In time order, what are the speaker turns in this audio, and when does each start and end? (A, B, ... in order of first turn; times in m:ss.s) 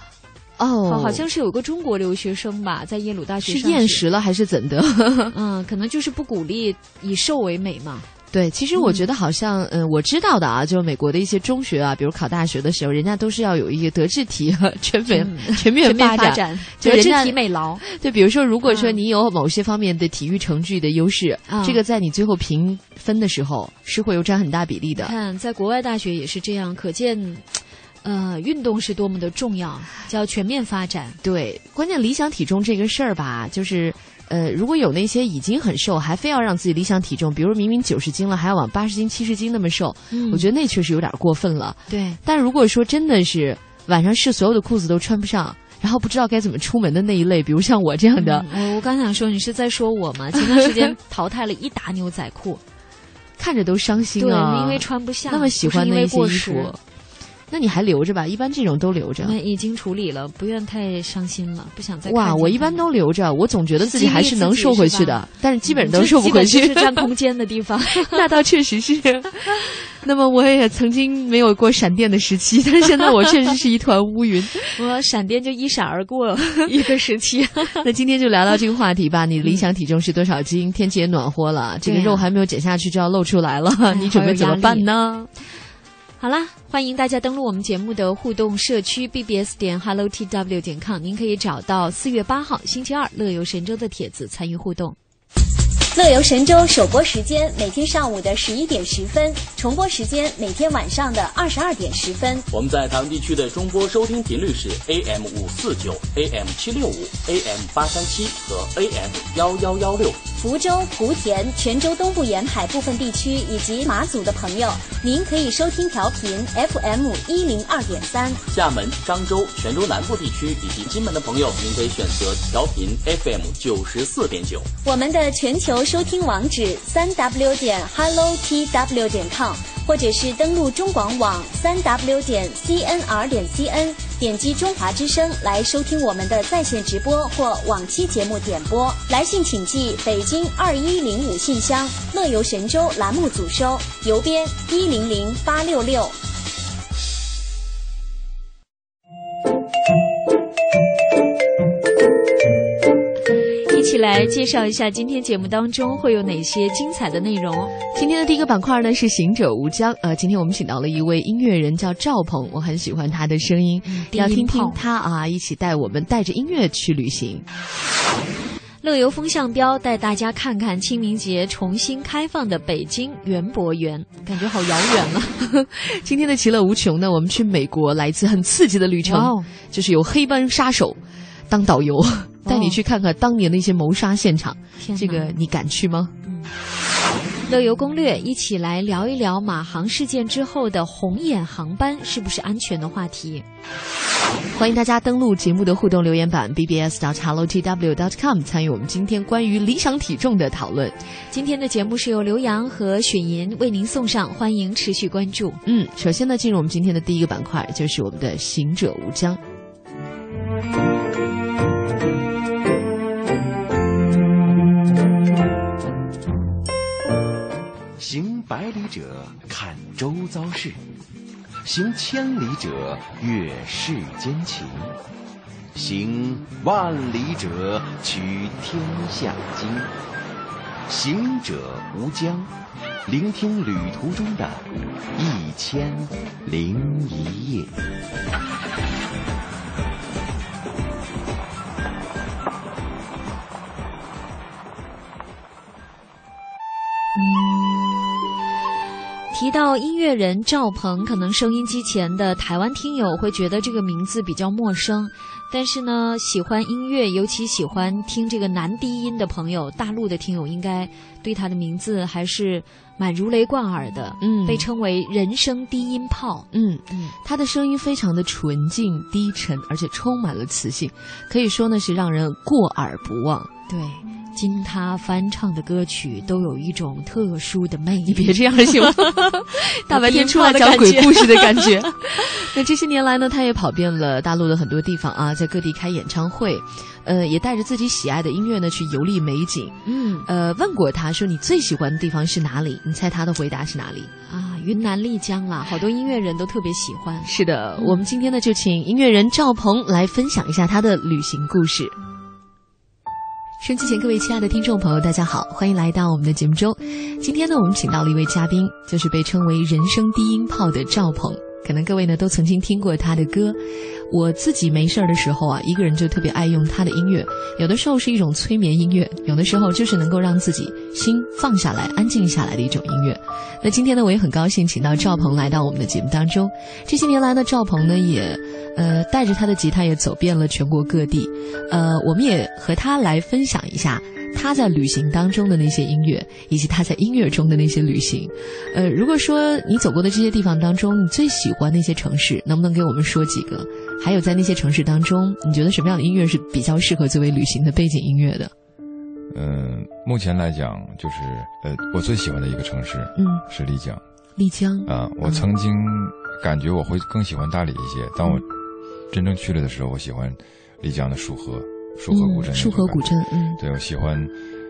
0:00.6-0:01.2 A
0:00.8-0:04.0 B
0:03.4-0:05.3 A
0:05.3-0:08.0 B
0:08.3-0:25.1 A
0:08.8-0:09.0 B
0:15.1-0:17.8 B
0:18.6-0:19.0 B
0:21.5-0:21.8 B
0:25.0-0:27.4 B
0:28.0-0:31.2 B
0:31.2-0:48.5 A
0:40.1-0:40.5 B
0:41.9-0:42.2 B
0:48.2-0:52.6 B
0:53.4-0:56.8 A
0:54.2-0:56.7 B
0:57.5-0:59.4 A
0:59.2-1:02.8 B
1:02.0-1:07.1 A
1:03.8-1:08.2 B
1:08.0-1:14.7 A
1:14.7-1:17.8 B
1:17.8-1:25.3 A
1:21.8-1:22.3 B
1:23.9-1:24.9 B
1:26.2-1:35.0 B
1:35.9-1:42.4 C
1:42.5-1:50.2 D
1:50.4-1:58.4 C
1:58.5-2:04.7 D
2:04.8-2:26.2 C
2:33.7-2:37.7 B
2:37.9-2:47.4 A
2:43.8-2:44.8 B
2:48.8-2:55.4 B
2:55.6-3:06.1 A
2:59.0-2:59.5 B
3:02.4-3:02.8 B
3:04.8-3:05.4 B
3:06.2-3:06.5 B
3:07.5-3:13.4 B
3:14.5-3:21.0 A
3:21.3-3:25.6 B
3:25.6-3:29.4 A
3:38.0-3:40.8 E
3:41.6-3:45.0 E
3:45.7-3:49.9 E
3:50.9-3:52.5 E
3:53.0-3:57.7 E
4:09.3-4:27.1 B
4:24.2-4:24.6 A
4:26.5-4:33.5 A
4:33.7-4:39.3 B
4:38.1-4:54.1 A
4:39.9-4:41.9 B
4:49.8-4:50.3 B
4:54.2-4:58.0 B
4:57.2-5:01.9 A
5:03.6-5:48.5 A
5:49.3-5:54.0 F
5:53.2-5:53.4 A
5:54.4-5:55.4 A
5:54.8-5:58.5 F
5:59.1-6:04.3 F
6:02.1-6:03.6 A